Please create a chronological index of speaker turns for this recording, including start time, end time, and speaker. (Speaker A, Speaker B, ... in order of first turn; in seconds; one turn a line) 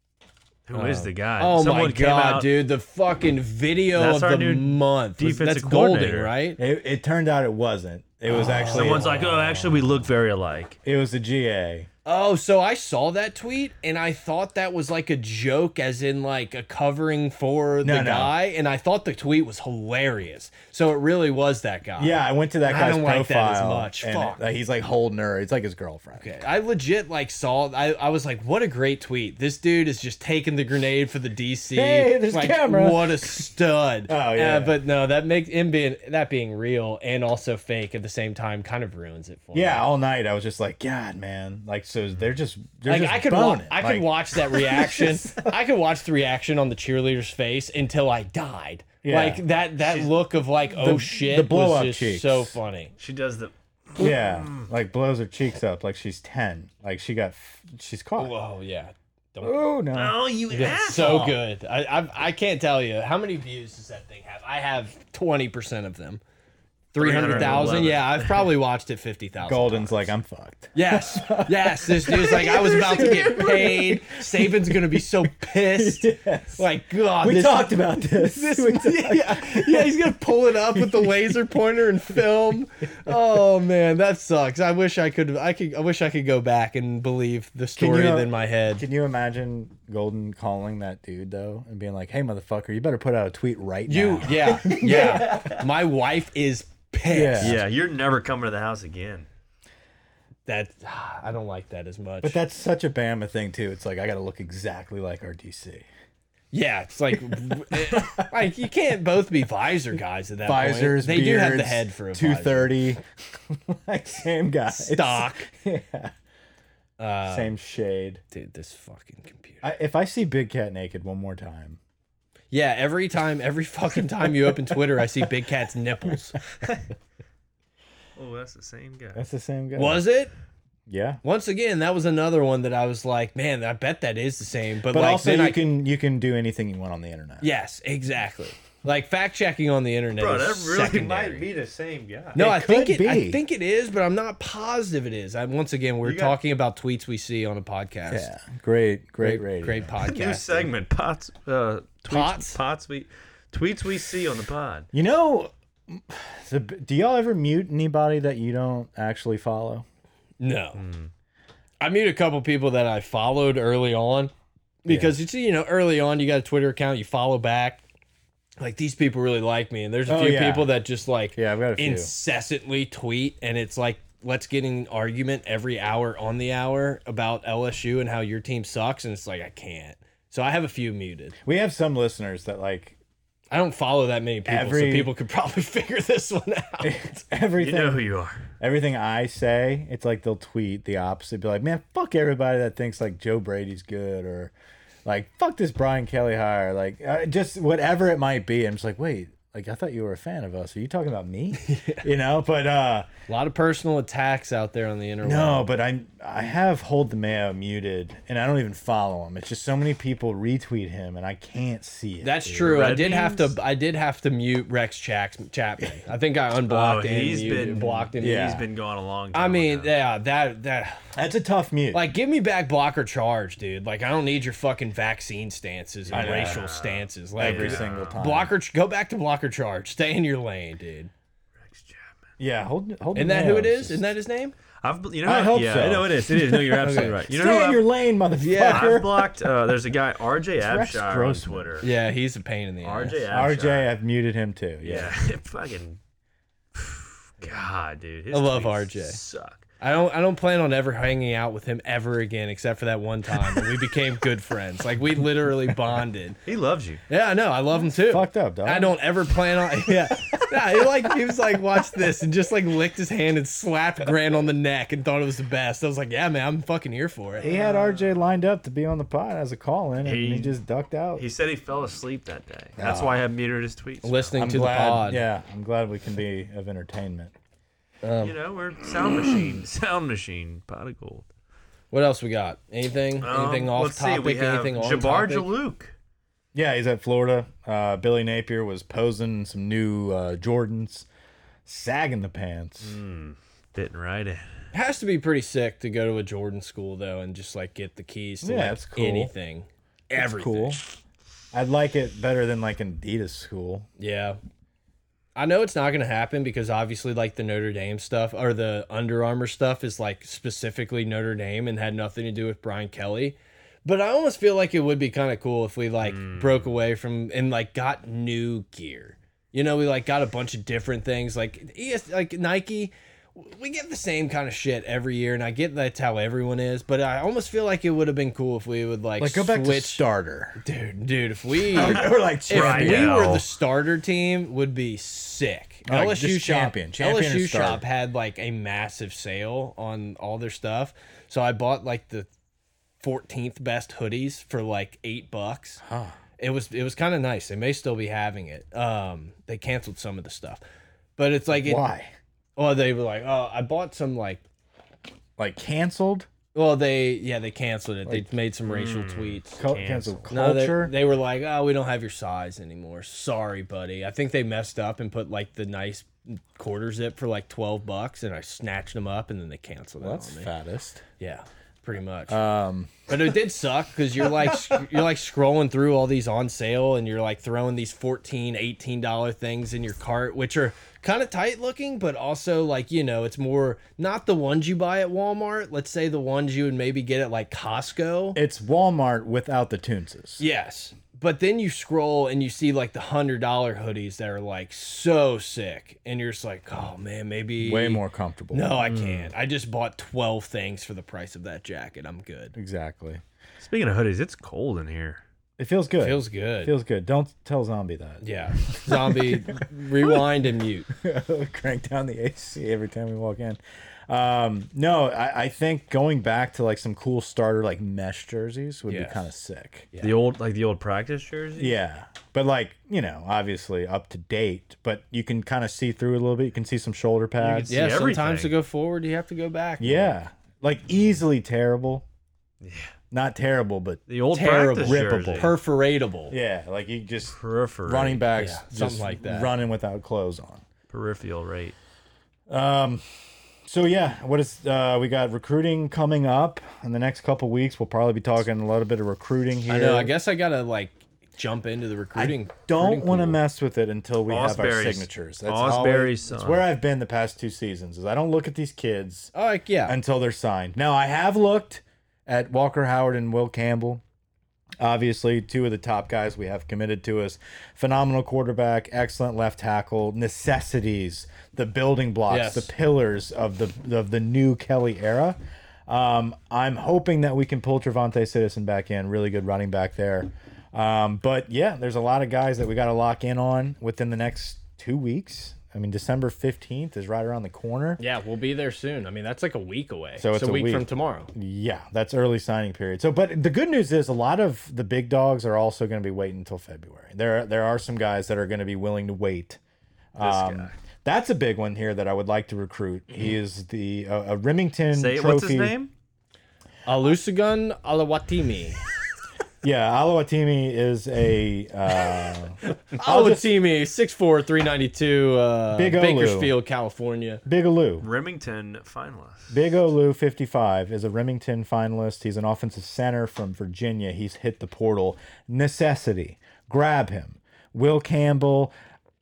Speaker A: 0.7-2.5
Speaker B: 0.7-6.6
Speaker A: 4.0-6.3
Speaker C: 6.6-9.7
Speaker B: 8.3-9.6
Speaker A: 8.7-10.8
Speaker C: 10.8-11.9
Speaker B: 12.1-24.4
Speaker C: 17.8-18.4
Speaker C: 22.0-26.4
Speaker B: 26.2-39.9
Speaker C: 31.7-33.5
Speaker C: 34.1-34.8
Speaker C: 39.5-45.5
Speaker B: 42.9-52.9
Speaker C: 49.0-49.4
Speaker A: 49.9-50.1
Speaker C: 50.8-52.6
Speaker A: 53.0-54.7
Speaker C: 54.0-58.3
Speaker B: 58.2-59.6
Speaker C: 59.4-60.2
Speaker A: 59.9-61.4
Speaker B: 60.5-66.2
Speaker B: 66.9-70.1
Speaker A: 67.0-68.5
Speaker C: 67.1-67.9
Speaker C: 69.4-76.7
Speaker B: 70.7-88.8
Speaker C: 77.2-80.2
Speaker C: 80.7-81.1
Speaker C: 87.8-95.5
Speaker B: 93.9-97.6
Speaker A: 94.9-95.6
Speaker C: 97.1-97.6
Speaker A: 97.4-99.3
Speaker B: 100.5-102.4
Speaker C: 102.2-105.9
Speaker B: 106.5-112.8
Speaker C: 107.7-108.2
Speaker C: 110.5-116.1
Speaker B: 114.7-115.5
Speaker B: 117.0-117.5
Speaker C: 117.3-118.2
Speaker B: 118.3-119.6
Speaker C: 119.6-121.8
Speaker B: 122.5-126.4
Speaker A: 128.2-129.2
Speaker C: 129.2-130.1
Speaker B: 129.7-130.3
Speaker C: 130.9-131.2
Speaker B: 131.2-135.6
Speaker C: 134.9-137.5
Speaker B: 137.4-141.5
Speaker A: 140.2-142.4
Speaker C: 142.3-143.4
Speaker B: 142.3-148.3
Speaker A: 146.0-146.4
Speaker C: 148.1-149.9
Speaker B: 149.2-150.7
Speaker A: 150.0-154.9
Speaker B: 152.1-152.6
Speaker C: 154.9-159.9
Speaker B: 160.4-160.8
Speaker A: 160.8-161.1
Speaker B: 161.8-164.3
Speaker B: 164.8-167.8
Speaker C: 164.9-165.2
Speaker B: 168.6-181.3
Speaker C: 170.1-170.7
Speaker C: 171.3-172.1
Speaker C: 181.4-183.0
Speaker B: 183.5-187.1
Speaker C: 184.5-185.1
Speaker C: 186.8-188.0
Speaker A: 187.6-188.4
Speaker C: 188.6-194.5
Speaker C: 195.1-203.1
Speaker B: 201.6-202.1
Speaker B: 203.3-205.7
Speaker C: 205.2-212.9
Speaker B: 212.2-218.6
Speaker A: 212.6-213.6
Speaker A: 216.7-219.9
Speaker C: 218.2-218.7
Speaker B: 219.3-221.1
Speaker C: 221.1-222.1
Speaker B: 221.9-231.1
Speaker A: 226.1-228.2
Speaker C: 226.1-226.7
Speaker C: 227.4-228.6
Speaker A: 231.6-232.0
Speaker C: 232.4-234.1
Speaker B: 233.2-234.6
Speaker A: 234.8-237.8
Speaker C: 235.2-239.3
Speaker B: 236.8-237.2
Speaker B: 238.4-239.0
Speaker A: 238.7-241.9
Speaker C: 240.6-241.8
Speaker B: 241.8-243.3
Speaker A: 242.8-243.9
Speaker C: 243.3-245.1
Speaker A: 244.8-246.0
Speaker A: 246.8-249.7
Speaker B: 248.3-249.2
Speaker B: 249.8-256.4
Speaker A: 256.5-257.0
Speaker B: 257.1-267.7
Speaker C: 257.9-259.0
Speaker C: 267.4-271.2
Speaker A: 270.0-270.6
Speaker A: 271.2-274.3
Speaker C: 272.8-273.2
Speaker B: 274.0-275.2
Speaker C: 274.4-277.3
Speaker B: 278.0-278.4
Speaker A: 278.2-281.3
Speaker B: 281.9-285.5
Speaker A: 283.2-285.9
Speaker C: 286.5-291.1
Speaker C: 291.7-293.0
Speaker A: 292.8-294.5
Speaker B: 294.7-300.8
Speaker C: 298.4-299.3
Speaker C: 300.1-300.8
Speaker C: 301.5-303.9
Speaker B: 304.0-304.4
Speaker B: 305.4-330.0
Speaker A: 316.0-316.7
Speaker C: 329.2-330.6
Speaker B: 330.6-342.3
Speaker C: 331.7-333.2
Speaker A: 332.5-333.4
Speaker C: 335.9-337.8
Speaker B: 343.0-345.8
Speaker C: 345.8-346.2
Speaker B: 346.4-350.6
Speaker B: 351.2-351.8
Speaker C: 351.5-352.1
Speaker B: 352.6-354.4
Speaker C: 355.4-356.3
Speaker B: 356.5-359.7
Speaker A: 358.7-360.2
Speaker C: 359.6-360.9
Speaker B: 360.3-370.5
Speaker C: 370.0-371.0
Speaker B: 371.2-372.4
Speaker C: 372.3-373.1
Speaker B: 373.1-388.4
Speaker C: 388.4-390.4
Speaker B: 390.4-402.6
Speaker C: 397.6-398.8
Speaker A: 398.8-399.3
Speaker C: 402.6-403.2
Speaker A: 403.6-405.2
Speaker C: 405.6-410.2
Speaker B: 406.0-406.7
Speaker B: 408.2-410.9
Speaker C: 410.9-419.9
Speaker B: 418.9-419.3
Speaker A: 420.0-421.8
Speaker C: 421.6-428.1
Speaker A: 427.4-428.5
Speaker B: 427.7-430.1
Speaker C: 429.8-432.1
Speaker A: 432.6-432.9
Speaker C: 433.1-434.0
Speaker A: 434.1-435.6
Speaker B: 434.3-436.4
Speaker C: 434.9-435.5
Speaker C: 436.3-440.6
Speaker A: 437.4-438.2
Speaker B: 438.4-439.5
Speaker A: 440.9-441.8
Speaker C: 442.5-443.0
Speaker C: 443.7-450.1
Speaker B: 449.7-453.4
Speaker C: 452.1-459.3
Speaker A: 454.3-456.7
Speaker B: 459.3-459.9
Speaker C: 459.9-464.0
Speaker C: 464.8-488.0
Speaker B: 472.3-472.7
Speaker B: 488.0-491.3
Speaker C: 490.2-499.6
Speaker C: 500.1-505.8
Speaker A: 500.2-500.8
Speaker A: 504.9-505.9
Speaker B: 506.9-508.8
Speaker C: 509.6-513.5
Speaker B: 512.9-517.4
Speaker C: 515.7-516.5
Speaker C: 517.5-518.1
Speaker A: 518.0-519.5
Speaker C: 519.5-528.7